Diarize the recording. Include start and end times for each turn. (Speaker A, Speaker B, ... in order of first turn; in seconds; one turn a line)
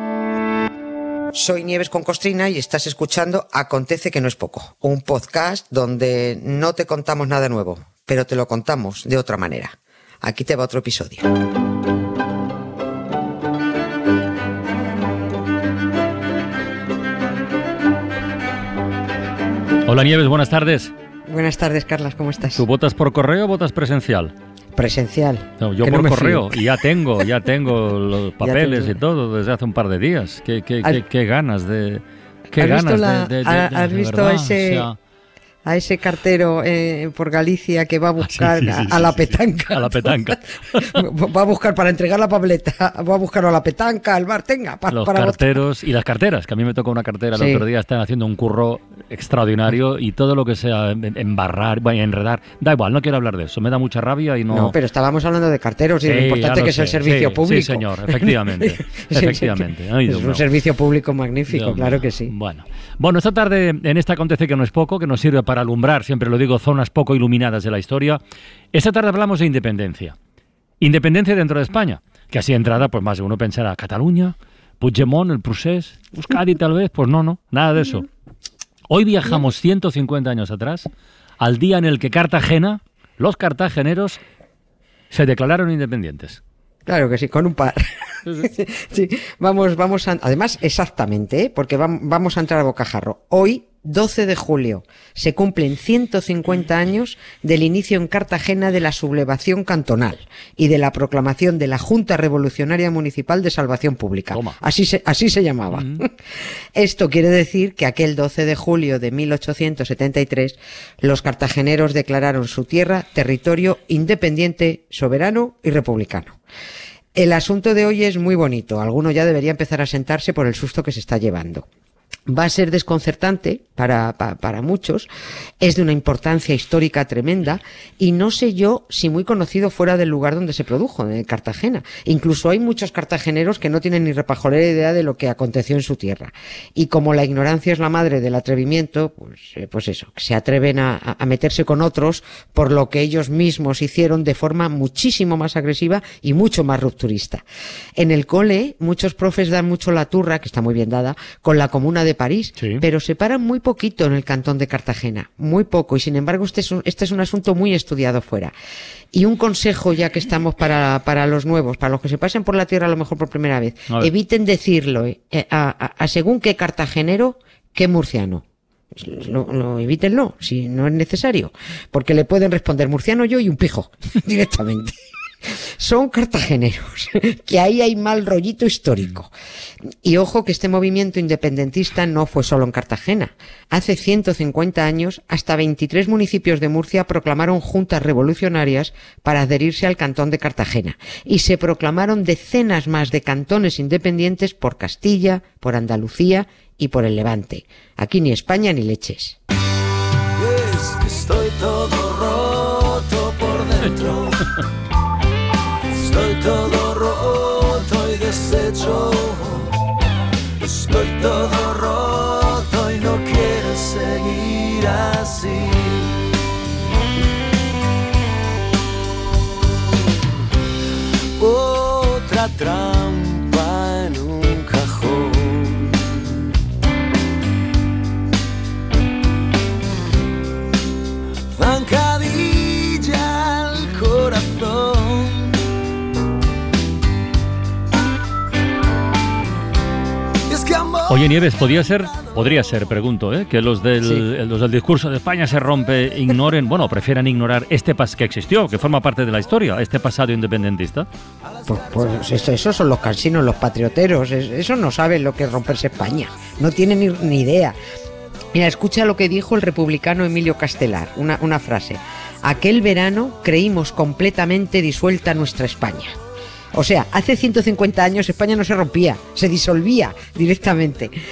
Speaker A: 1.3-11.3
Speaker B: 19.9-20.9
Speaker A: 21.3-22.6
Speaker B: 22.6-24.3
Speaker A: 24.8-26.7
Speaker B: 25.6-35.0
Speaker A: 28.4-29.0
Speaker A: 32.5-34.9
Speaker A: 35.6-45.6
Speaker B: 38.2-41.0
Speaker B: 44.9-54.8
Speaker A: 47.3-47.6
Speaker A: 54.5-62.3
Speaker B: 56.0-60.4
Speaker B: 61.5-68.2
Speaker B: 68.7-70.2
Speaker B: 70.8-78.1
Speaker B: 78.9-80.9
Speaker B: 81.4-84.2
Speaker B: 85.1-86.4
Speaker A: 86.9-106.2
Speaker B: 105.7-106.0
Speaker A: 106.8-116.4
Speaker A: 117.2-121.7
Speaker A: 122.3-125.1
Speaker A: 125.6-147.4
Speaker A: 148.0-158.5
Speaker A: 159.1-168.4
Speaker A: 168.9-175.0
Speaker A: 175.8-179.3
Speaker A: 180.0-199.4
Speaker C: 200.4-204.4
Speaker C: 205.9-209.8
Speaker C: 210.6-216.2
Speaker C: 221.2-226.5
Speaker C: 231.5-235.7
Speaker C: 240.5-241.4
Speaker B: 241.1-251.1
Speaker A: 251.7-257.8
Speaker A: 258.5-266.1
Speaker A: 266.8-271.1